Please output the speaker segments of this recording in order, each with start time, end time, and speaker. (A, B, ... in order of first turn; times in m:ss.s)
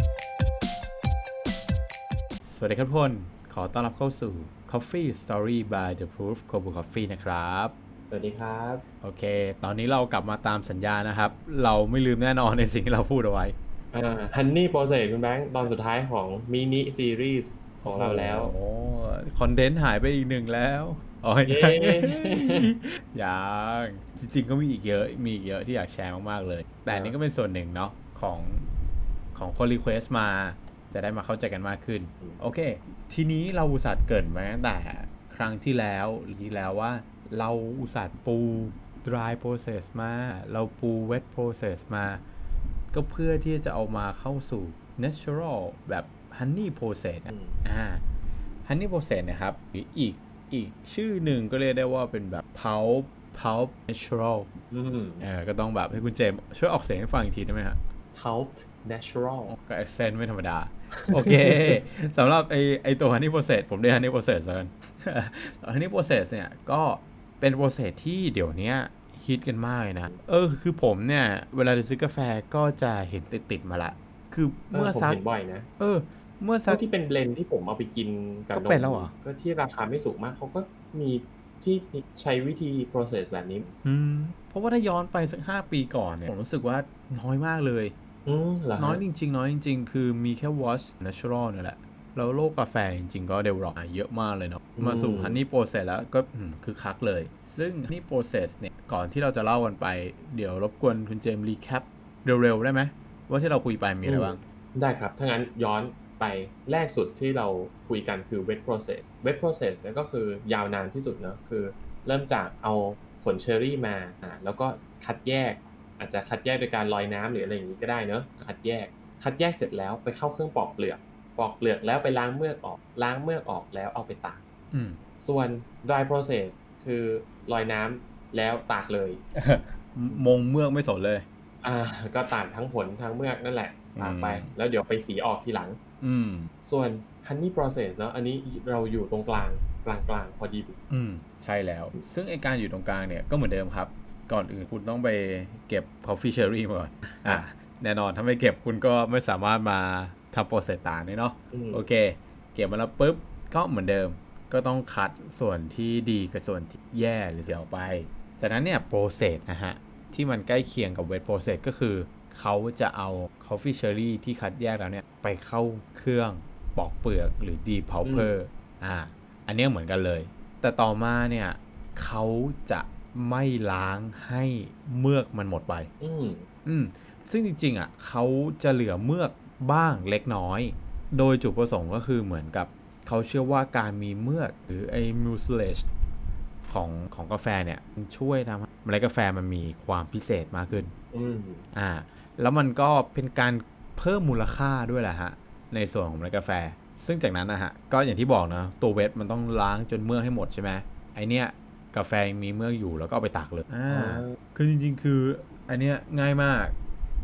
0:02.4-0:07.7 A
0:08.1-0:08.8 B
0:09.0-0:13.5 A
0:13.9-0:18.5 B
0:17.8-0:28.7 A
0:21.4-0:22.7 B
0:26.9-0:27.2 B
0:29.3-0:42.2 A
0:42.9-0:48.0 A
0:47.2-0:47.6 B
0:48.6-0:54.5 A
0:54.7-0:55.3 B
0:55.2-0:57.8 A
0:58.1-0:59.5 B
0:59.5-1:15.2 A
1:01.0-1:01.8 B
1:14.7-1:15.7 B
1:15.8-1:16.8 A
1:16.6-1:23.7 B
1:18.5-1:19.1 A
1:23.8-1:27.9 A
1:28.2-1:29.0 B
1:28.8-1:44.4 A
1:34.8-1:35.4 B
1:44.0-2:04.4 B
2:04.7-2:05.0 A
2:05.2-2:09.2 B
2:09.3-2:11.2 A
2:11.6-2:15.8 B
2:14.0-2:14.5 A
2:16.0-2:16.5 A
2:16.6-2:20.8 B
2:20.9-2:55.9 A
2:27.0-2:27.4 B
2:31.5-2:31.8 B
2:48.0-2:48.4 B
2:56.0-2:56.5 B
2:56.6-3:05.9 A
3:06.6-3:10.9 A
3:11.1-3:11.6 B
3:11.7-3:26.7 A
3:23.9-3:24.4 B